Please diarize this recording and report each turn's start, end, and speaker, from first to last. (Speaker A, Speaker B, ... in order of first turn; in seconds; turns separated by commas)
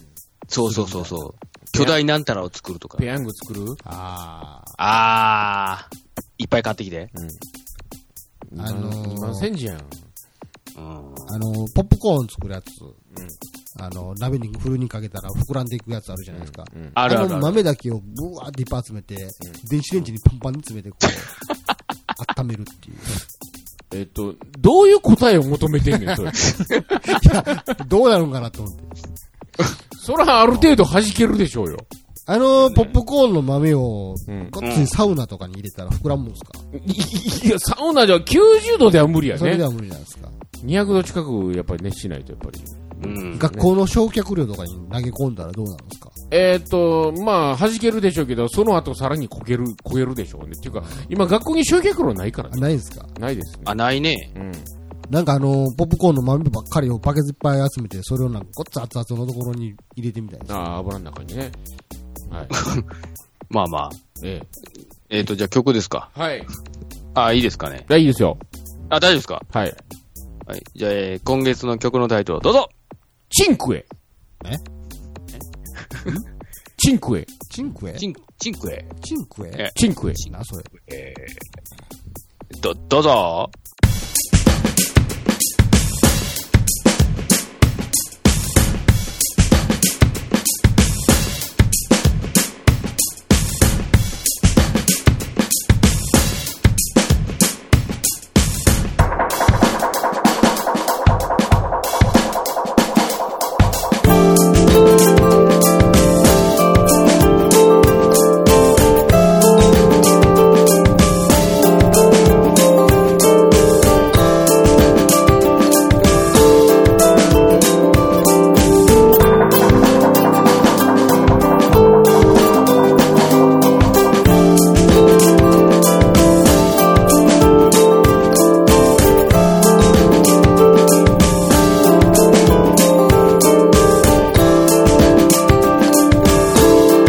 Speaker A: 0.5-3.0, Speaker B: 0.6-1.3, Speaker C: 3.0-3.8, Speaker B: 3.8-4.7, Speaker A: 4.8-7.1, Speaker C: 7.1-7.4, Speaker C: 8.5-10.1, Speaker B: 8.6-9.5, Speaker A: 10.8-11.4, Speaker B: 11.3-13.0, Speaker B: 13.8-21.3, Speaker C: 16.3-17.0, Speaker A: 16.9-17.6, Speaker B: 22.1-23.2, Speaker C: 23.9-27.2, Speaker A: 26.5-26.8, Speaker B: 27.0-29.0, Speaker C: 30.0-31.9, Speaker B: 32.3-36.6, Speaker C: 34.3-34.5, Speaker A: 34.6-34.9, Speaker C: 36.7-39.6, Speaker B: 39.3-40.4, Speaker C: 40.6-43.7, Speaker A: 43.0-43.5, Speaker B: 43.4-46.1, Speaker C: 46.3-53.8, Speaker B: 50.7-51.1, Speaker B: 52.5-53.1, Speaker A: 53.6-54.3, Speaker C: 54.3-54.7, Speaker B: 55.1-60.6, Speaker C: 60.5-61.5, Speaker C: 62.3-62.5, Speaker A: 62.5-62.9, Speaker A: 63.5-64.0, Speaker C: 64.2-64.5, Speaker A: 65.1-66.1, Speaker C: 66.1-66.5, Speaker A: 67.1-67.9, Speaker C: 67.9-68.4, Speaker A: 68.9-69.4, Speaker C: 69.5-69.8, Speaker A: 70.5-72.7, Speaker C: 73.3-73.8, Speaker A: 75.3-76.2, Speaker C: 76.8-77.3, Speaker B: 77.5-78.0, Speaker A: 78.0-78.9, Speaker B: 79.0-80.7, Speaker C: 79.7-80.2, Speaker A: 80.9-81.4, Speaker A: 82.5-83.5